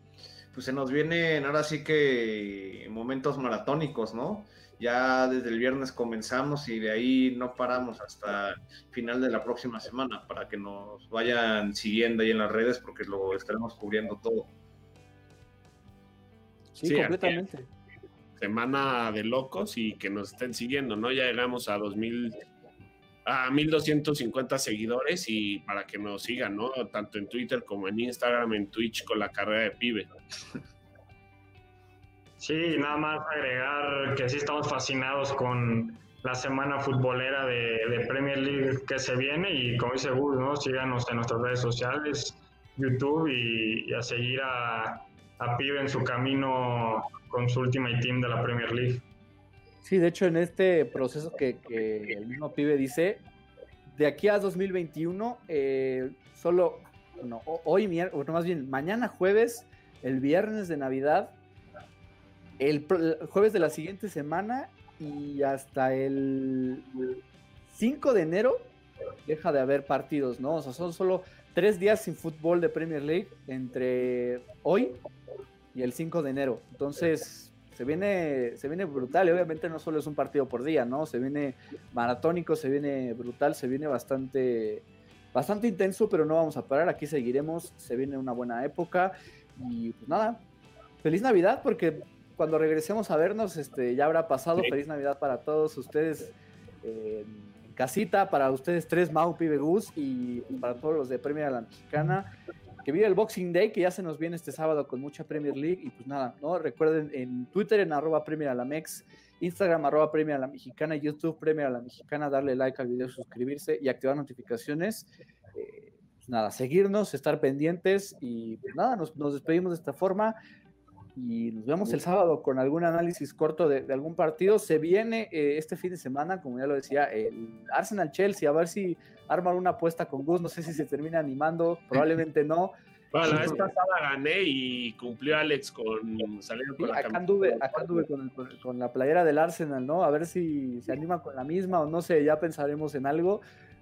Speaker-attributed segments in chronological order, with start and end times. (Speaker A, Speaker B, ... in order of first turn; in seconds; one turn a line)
Speaker A: 0.5-14.5
Speaker B: 16.8-17.7
Speaker C: 16.8-17.4
Speaker C: 18.4-22.4
Speaker C: 23.2-30.1
Speaker D: 32.4-49.0
Speaker B: 49.8-53.2
Speaker B: 53.9-61.4
Speaker B: 62.6-67.0
Speaker B: 67.7-68.7
Speaker B: 69.2-75.0
Speaker B: 75.7-90.4
Speaker B: 91.0-102.3
Speaker B: 102.8-120.4
Speaker B: 121.2-132.7
Speaker C: 133.1-138.0
Speaker B: 133.2-133.7
Speaker B: 136.8-143.4